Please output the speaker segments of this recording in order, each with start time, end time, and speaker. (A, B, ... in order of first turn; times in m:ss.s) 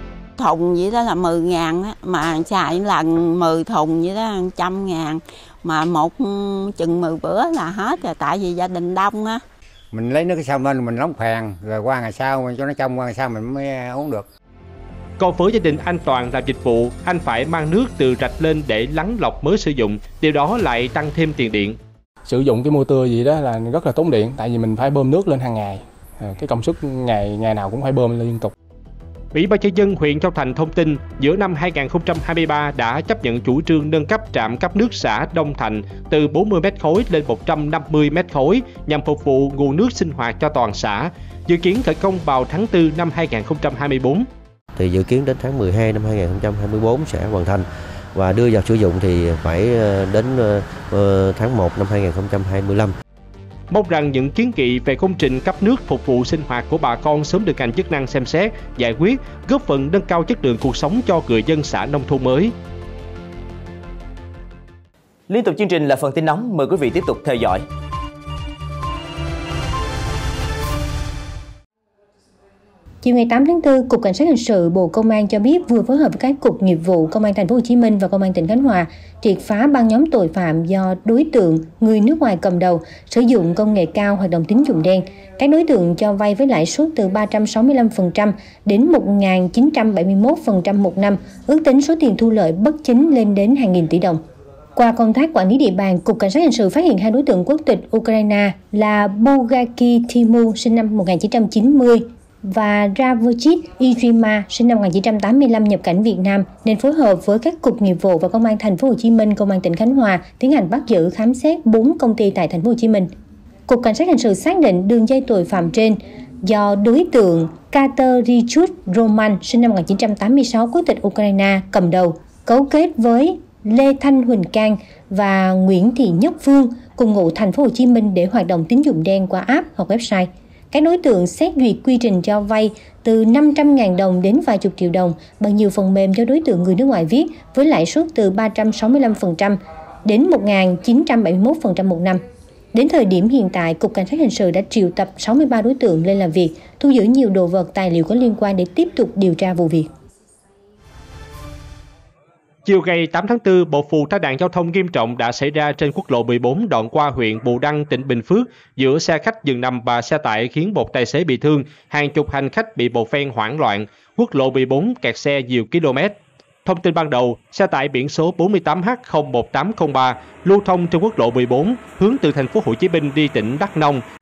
0:00.4-0:09.4 A
0:09.9-0:14.3 B
0:15.2-0:21.8 C
0:22.3-0:25.8 D
0:26.3-0:28.5 D
0:29.3-0:44.3 C
0:44.8-0:52.9 E
0:53.7-1:02.5 C
1:05.3-1:07.6 F
1:13.0-1:34.2 G
1:34.7-1:53.1 G
1:53.7-2:22.2 G
2:22.7-2:29.9 G
2:32.6-2:54.0 C